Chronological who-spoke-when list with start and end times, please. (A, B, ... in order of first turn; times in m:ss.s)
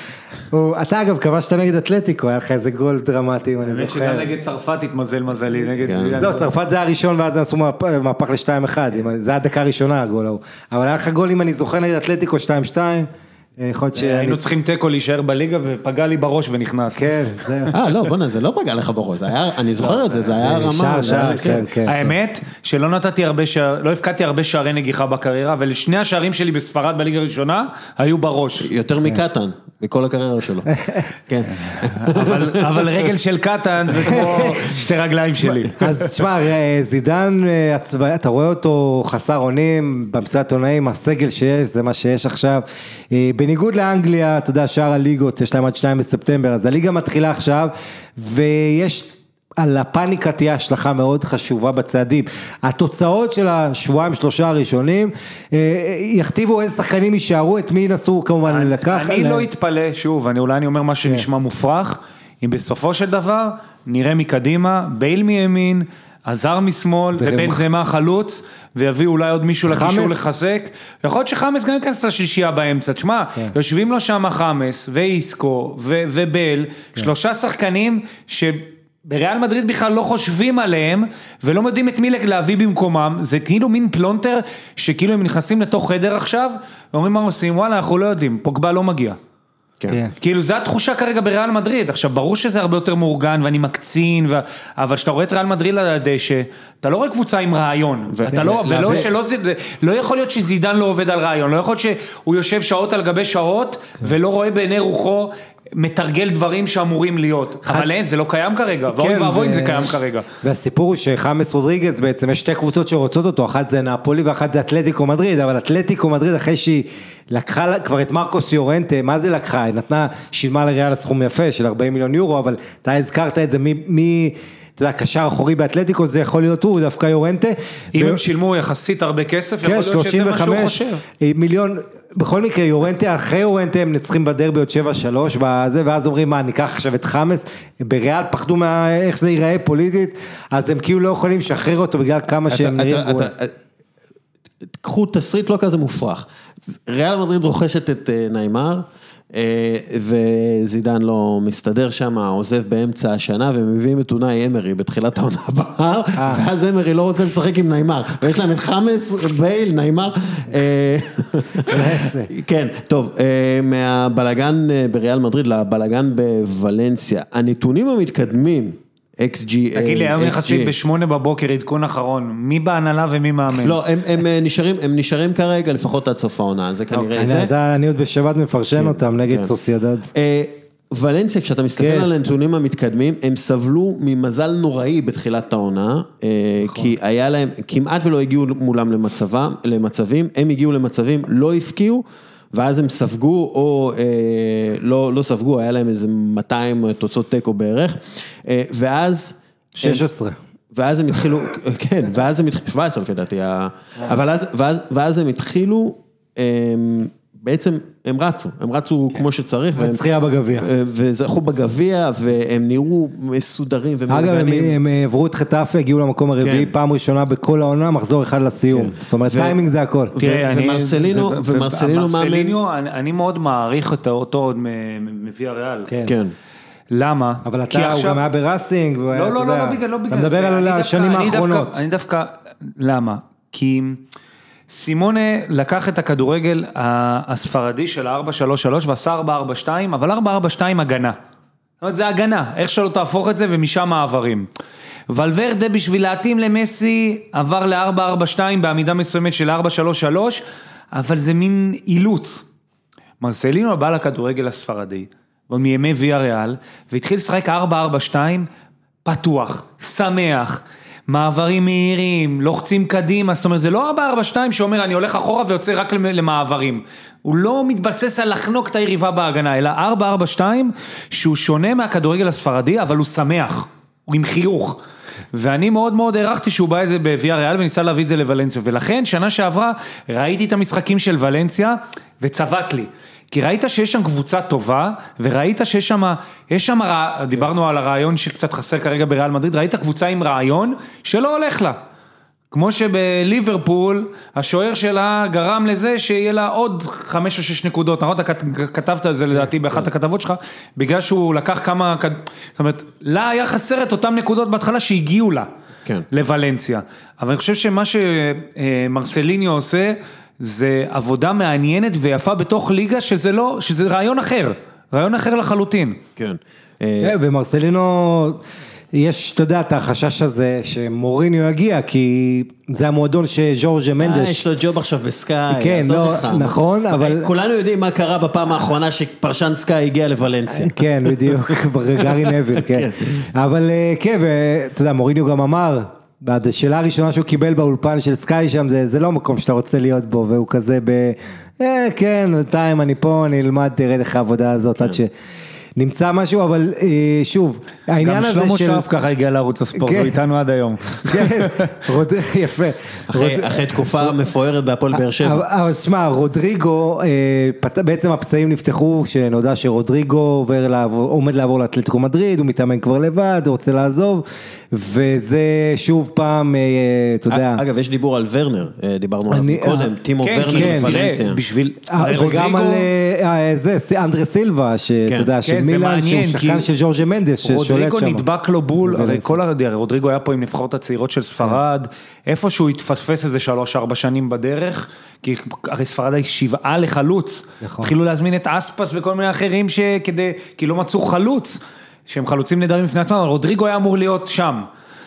0:00.5-0:04.3 A
0:03.7-0:06.5 B
0:05.8-0:06.4 C
0:06.2-0:14.4 A
0:14.0-0:17.7 B
0:16.9-0:17.7 A
0:17.7-0:21.9 C
0:20.3-0:22.1 A
0:21.8-0:28.7 B
0:28.6-0:33.1 C
0:31.7-0:36.1 B
0:34.0-0:34.5 C
0:34.1-0:34.7 A
0:35.7-0:59.4 A
0:58.4-1:29.2 B
1:07.2-1:07.6 A
1:09.7-1:10.2 A
1:30.2-1:50.3 B
1:38.1-1:39.1 C
1:48.9-2:08.2 A
2:08.0-2:11.0 B
2:09.6-2:23.3 A
2:22.5-2:23.6 C
2:24.7-2:50.7 C
2:36.2-2:36.4 A
2:41.6-2:42.3 A
2:49.7-2:53.8 B
2:53.5-2:57.5 C
2:57.2-3:00.1 A
2:58.8-2:59.5 C
3:00.1-3:20.0 C
3:01.8-3:02.1 A
3:06.6-3:06.9 A
3:19.8-3:20.4 A
3:20.7-3:30.0 C
3:29.8-3:30.7 A
3:30.6-3:34.8 C
3:34.1-3:40.1 A
3:36.4-3:36.7 C
3:38.7-3:39.6 C
3:40.1-3:42.6 C
3:40.2-3:45.9 B
3:46.0-3:46.3 C
3:46.9-3:48.2 B
3:47.4-3:51.8 A
3:49.1-3:54.0 B
3:54.7-4:01.2 B
4:01.8-4:04.5 B
4:05.1-4:10.4 B
4:10.9-4:12.4 B
4:13.2-4:18.5 B
4:19.0-4:34.8 B
4:35.3-4:51.8 B
4:52.5-5:05.5 B
5:06.1-5:16.0 B
5:16.2-5:17.2 C
5:17.0-5:24.4 A
5:24.0-5:33.3 C
5:25.5-5:27.3 A
5:30.5-5:45.1 A
5:45.8-5:48.9 A
5:48.0-5:51.8 B
5:49.7-5:50.2 A
5:51.0-5:54.2 A
5:53.1-5:55.4 C
5:54.9-6:07.6 A
6:07.3-6:11.4 C
6:09.3-6:09.9 A
6:10.2-6:12.9 B
6:10.5-6:11.1 A
6:11.9-6:18.2 A
6:15.1-6:15.3 C
6:15.4-6:16.7 B
6:17.4-6:34.7 B
6:18.8-6:19.4 A
6:27.6-6:27.9 A